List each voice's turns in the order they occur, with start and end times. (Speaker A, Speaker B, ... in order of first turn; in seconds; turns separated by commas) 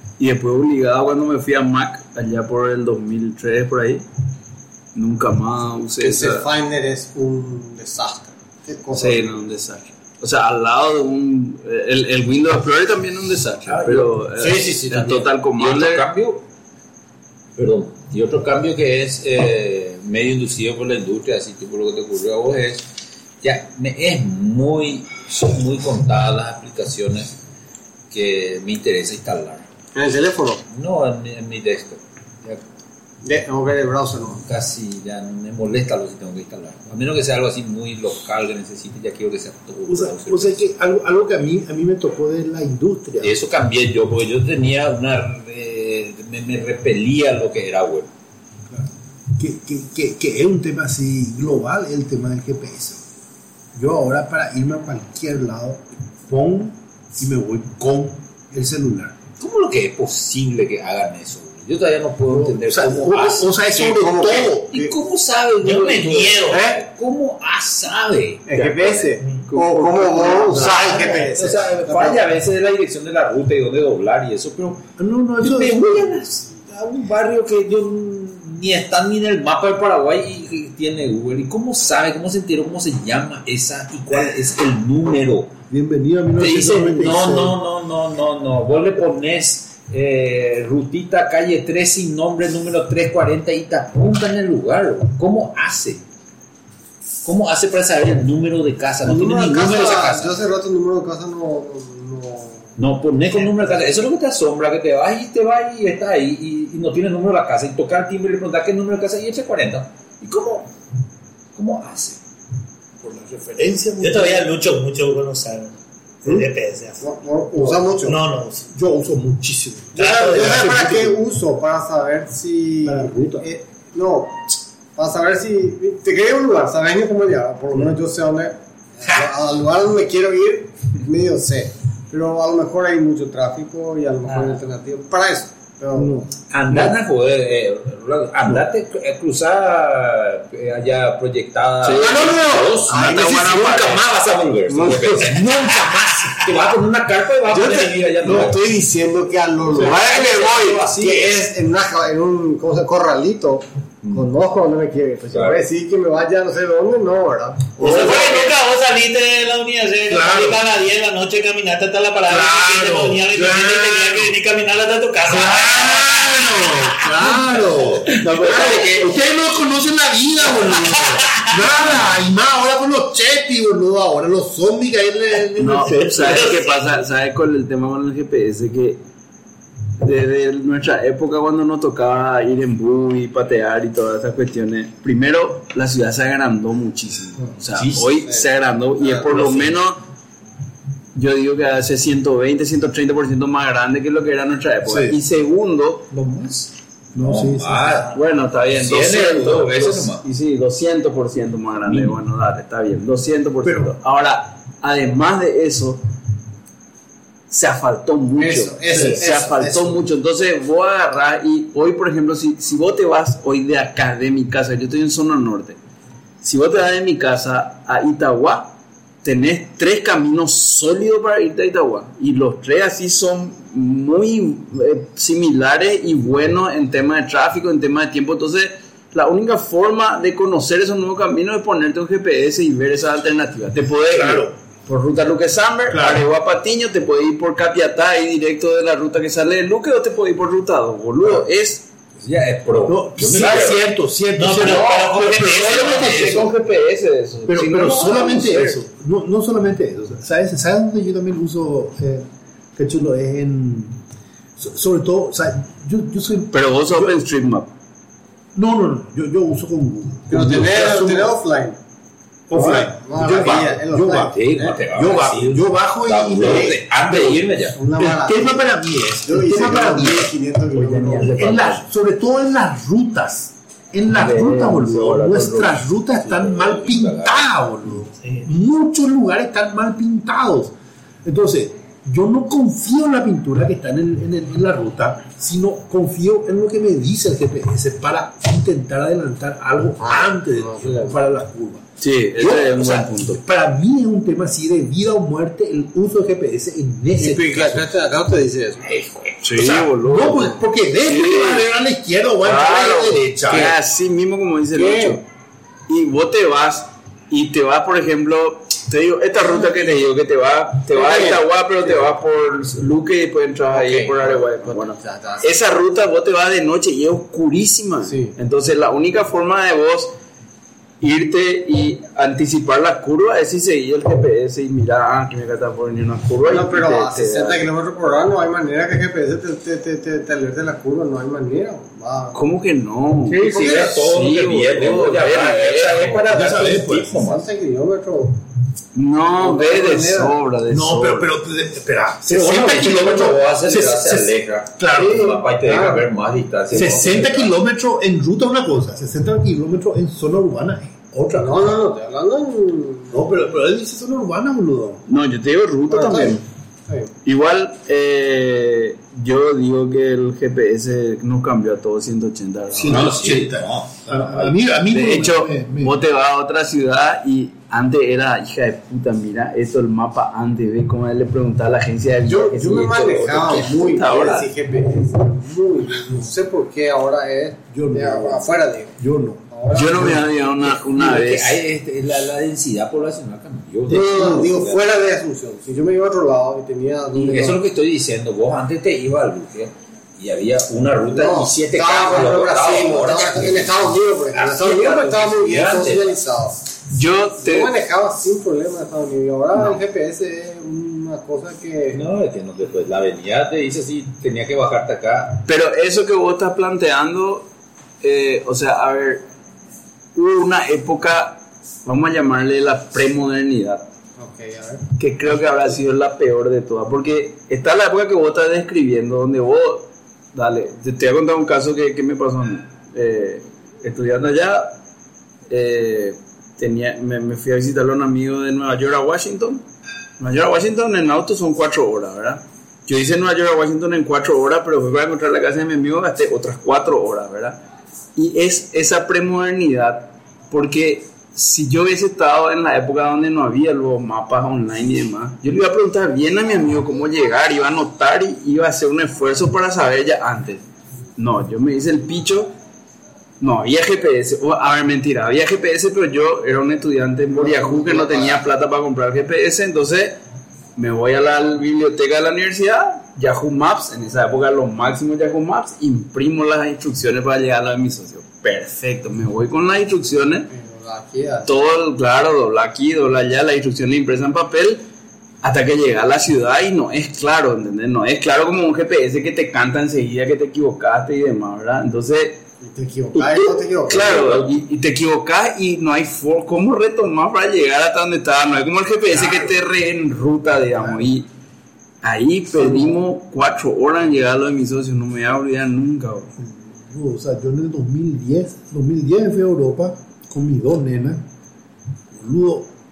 Speaker A: 0.2-4.0, Speaker A: 5.0-6.5, Speaker B: 6.0-9.3, Speaker A: 8.9-16.1, Speaker C: 13.7-16.4, Speaker B: 14.5-15.1, Speaker C: 17.6-22.9, Speaker C: 23.4-27.3, Speaker C: 28.1-29.6, Speaker B: 29.9-30.6, Speaker C: 30.7-32.6, Speaker B: 33.2-34.4, Speaker C: 34.4-40.6, Speaker D: 39.9-43.4, Speaker C: 43.2-48.1, Speaker D: 48.7-53.0, Speaker D: 53.8-59.1, Speaker C: 59.4-63.5, Speaker D: 62.3-64.7, Speaker B: 63.7-64.9, Speaker C: 64.7-68.5, Speaker E: 65.6-66.6, Speaker B: 66.5-66.8, Speaker B: 68.5-72.3, Speaker A: 68.6-71.0, Speaker C: 70.5-85.5, Speaker D: 75.0-76.2, Speaker D: 85.7-87.6, Speaker C: 86.4-96.0, Speaker C: 97.2-100.4, Speaker B: 99.0-102.7, Speaker C: 102.8-110.7, Speaker B: 103.5-103.7, Speaker C: 111.6-112.2, Speaker D: 113.0-114.5, Speaker E: 113.6-117.0, Speaker B: 117.0-118.2, Speaker E: 118.0-118.7, Speaker D: 118.7-121.2, Speaker B: 120.0-136.2, Speaker E: 120.0-120.8, Speaker D: 122.8-123.5, Speaker E: 134.3-134.6, Speaker D: 135.9-136.3, Speaker C: 136.5-148.6, Speaker A: 141.8-144.1, Speaker D: 142.0-142.8, Speaker B: 142.9-143.2, Speaker B: 144.7-145.4, Speaker B: 147.5-158.4, Speaker C: 149.7-151.4, Speaker D: 149.7-150.0, Speaker C: 155.3-155.7, Speaker E: 157.8-167.7, Speaker D: 157.8-158.4, Speaker D: 160.1-160.6, Speaker D: 162.3-164.4, Speaker D: 165.2-176.7, Speaker A: 168.1-169.1, Speaker C: 168.5-168.8, Speaker E: 170.8-171.6, Speaker A: 175.6-179.0, Speaker E: 176.2-176.7, Speaker A: 180.0-190.0, Speaker B: 188.1-188.4, Speaker B: 189.0-189.3, Speaker A: 191.1-196.1, Speaker D: 194.8-195.2, Speaker C: 196.1-198.2, Speaker D: 197.1-198.1, Speaker A: 198.1-206.0, Speaker C: 198.7-200.2, Speaker C: 201.8-202.2, Speaker D: 203.6-203.9, Speaker A: 207.5-215.8, Speaker B: 208.4-210.0, Speaker D: 208.9-209.2, Speaker A: 216.4-218.7, Speaker A: 219.2-241.8, Speaker D: 234.1-234.5, Speaker D: 235.9-236.2, Speaker C: 242.2-243.8, Speaker D: 242.9-246.5, Speaker E: 244.4-246.5, Speaker A: 244.6-248.8, Speaker D: 247.5-252.3, Speaker D: 252.8-254.0, Speaker D: 254.6-257.2, Speaker A: 256.5-257.7, Speaker D: 258.6-261.4, Speaker B: 260.3-261.8, Speaker D: 262.5-267.4, Speaker B: 262.5-264.8, Speaker C: 263.3-267.8, Speaker B: 266.5-266.7, Speaker B: 267.8-268.7, Speaker D: 268.0-270.3, Speaker B: 269.2-271.5, Speaker A: 270.7-271.9, Speaker D: 271.3-280.7, Speaker A: 274.1-275.8, Speaker C: 276.2-277.5, Speaker D: 281.2-291.8, Speaker B: 290.0-291.2, Speaker A: 292.0-293.4, Speaker D: 292.4-297.9, Speaker B: 297.2-298.9, Speaker A: 299.4-301.7, Speaker D: 299.4-303.8, Speaker A: 302.4-305.2, Speaker B: 304.8-305.2, Speaker A: 305.9-320.1, Speaker B: 309.4-310.0, Speaker B: 310.9-312.1, Speaker B: 313.7-315.5, Speaker B: 318.1-318.3, Speaker A: 321.0-327.7, Speaker B: 326.4-332.4, Speaker A: 332.3-336.3, Speaker C: 333.3-337.4, Speaker B: 333.4-333.9, Speaker D: 336.3-337.2, Speaker B: 337.1-338.4, Speaker A: 338.9-341.3, Speaker B: 339.4-340.4, Speaker D: 340.7-345.4, Speaker C: 342.3-347.5, Speaker B: 344.9-346.1, Speaker B: 346.7-347.1, Speaker D: 346.7-351.8, Speaker B: 351.4-353.1, Speaker D: 353.1-355.0, Speaker A: 355.1-356.4, Speaker B: 355.9-357.1, Speaker A: 357.2-363.1, Speaker D: 362.7-366.0, Speaker C: 362.8-364.5, Speaker A: 364.9-374.5, Speaker B: 372.3-379.0, Speaker D: 377.7-380.2, Speaker B: 379.5-380.2, Speaker A: 379.7-381.6, Speaker C: 380.7-384.8, Speaker B: 383.9-387.6, Speaker D: 383.9-384.4, Speaker C: 387.1-396.1, Speaker B: 391.1-396.6, Speaker A: 396.9-397.7, Speaker B: 397.4-402.0, Speaker C: 399.6-399.8, Speaker C: 401.9-405.4, Speaker A: 405.5-407.5, Speaker A: 408.0-409.2, Speaker A: 410.1-413.9, Speaker B: 414.2-414.8, Speaker A: 415.0-424.8, Speaker A: 425.5-429.6, Speaker A: 430.2-437.6, Speaker A: 438.1-450.6, Speaker A: 451.2-452.5, Speaker A: 453.4-460.2, Speaker B: 457.4-458.4, Speaker A: 460.8-470.5, Speaker B: 470.5-471.6, Speaker A: 471.5-474.8, Speaker A: 475.4-482.4, Speaker B: 482.6-484.3, Speaker A: 483.1-491.3, Speaker C: 483.9-484.5, Speaker A: 492.0-496.3, Speaker B: 492.6-493.0, Speaker D: 496.4-501.2, Speaker D: 502.1-502.7